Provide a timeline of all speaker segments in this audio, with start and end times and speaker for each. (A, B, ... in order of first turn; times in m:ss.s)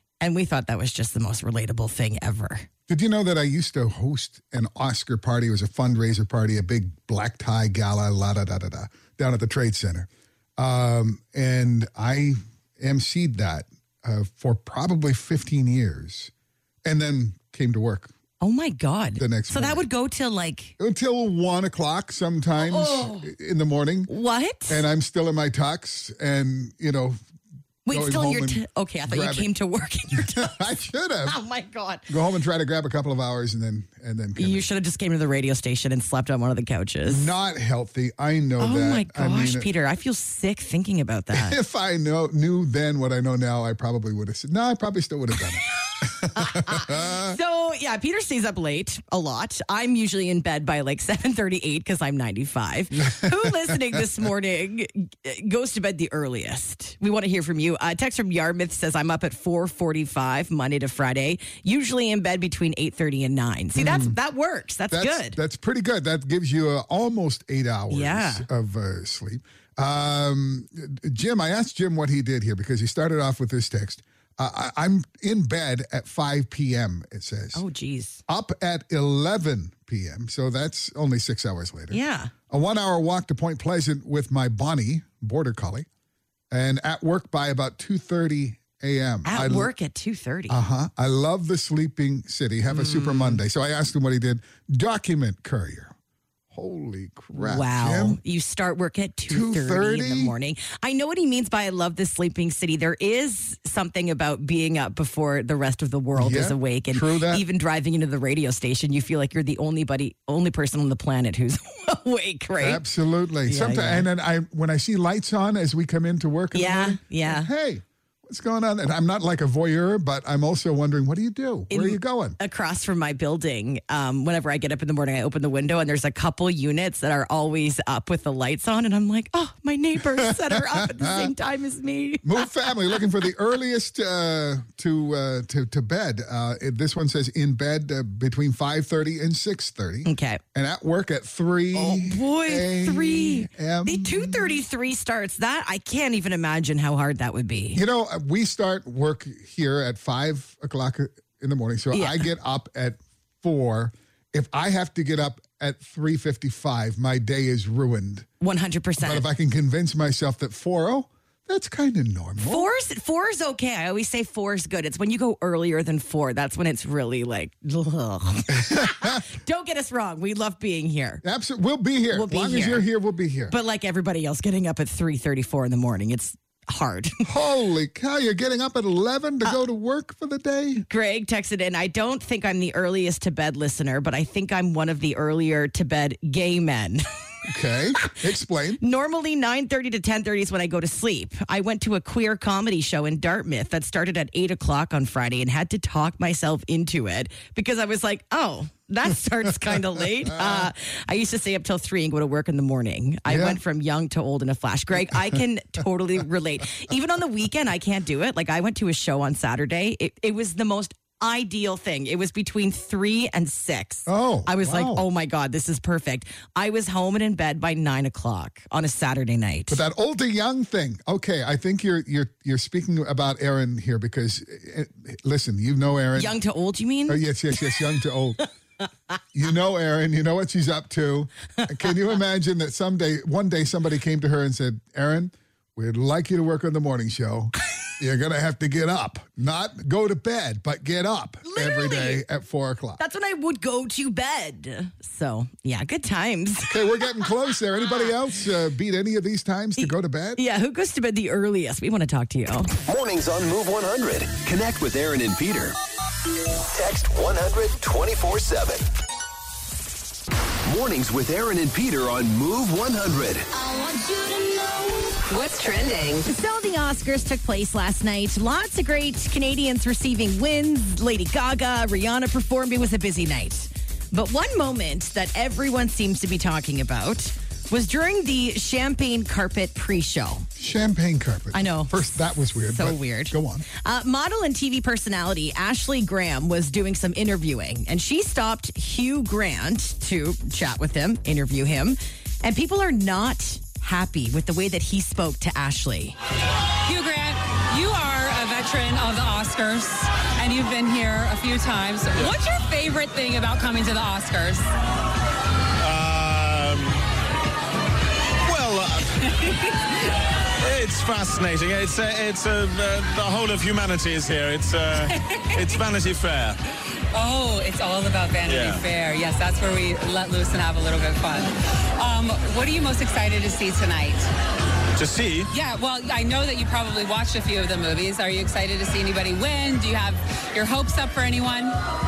0:00.2-0:02.7 A
0:02.9-0:16.3 B
0:16.8-0:18.1 B
0:18.4-0:20.7 A
0:19.2-0:19.8 B
0:20.8-0:24.1 B
0:22.6-0:23.3 A
0:24.1-0:24.8 A
0:24.7-0:27.2 B
0:27.8-0:30.6 A
0:27.9-0:29.5 B
0:30.1-0:31.4 B
0:31.2-0:32.1 A
0:32.1-0:34.7 B
0:34.4-0:37.3 A
0:37.1-0:39.7 B
0:38.6-0:41.6 A
0:41.3-0:47.4 B
0:46.3-1:05.4 A
0:53.1-0:54.0 B
1:03.7-1:04.2 B
1:04.9-1:17.6 B
1:07.9-1:08.4 A
1:17.5-1:18.2 A
1:18.3-1:25.9 B
1:21.9-1:22.3 A
1:26.5-1:29.7 B
1:29.2-1:30.6 A
1:30.5-1:35.9 B
1:32.7-1:33.4 A
1:36.5-1:38.2 B
1:37.3-1:52.8 A
1:39.3-1:40.3 B
1:46.2-1:47.4 B
1:52.6-2:02.4 B
1:53.4-1:54.1 A
1:56.5-1:57.5 A
2:01.7-2:12.5 A
2:10.2-2:11.3 B
2:12.2-2:24.6 B
2:20.0-2:20.4 A
2:21.7-2:27.8 A
2:27.7-2:38.3 B
2:31.9-2:32.2 A
2:38.4-2:39.2 A
2:39.0-2:42.7 B
2:42.4-2:51.2 A
2:48.5-2:49.2 B
2:51.2-2:53.5 B
2:52.1-2:52.9 A
2:53.5-2:57.2 A
2:57.2-3:00.8 B
3:00.8-3:07.0 A
3:07.4-3:08.8 B
3:08.8-3:39.8 A
3:20.3-3:20.6 B
3:23.3-3:23.6 B
3:34.0-3:35.0 B
3:39.7-3:46.4 B
3:46.2-3:47.2 A
3:47.1-3:48.5 B
3:49.3-4:03.0 B
4:01.4-4:02.2 A
4:03.0-4:06.8 A
4:06.7-4:10.4 B
4:09.8-4:12.7 A
4:12.8-4:15.8 C
4:16.7-4:18.9 C
4:20.6-4:23.5 C
4:23.5-4:26.3 D
4:26.2-4:40.5 A
4:40.6-4:43.6 B
4:41.5-4:42.0 A
4:42.7-4:56.2 A
4:56.8-5:04.7 E
5:05.8-5:07.0 F
5:08.4-5:09.6 F
5:10.6-5:16.6 F
5:15.0-5:15.8 E
5:17.1-5:24.3 E
5:18.4-5:18.8 F
5:25.0-5:25.5 F
5:25.5-5:31.8 E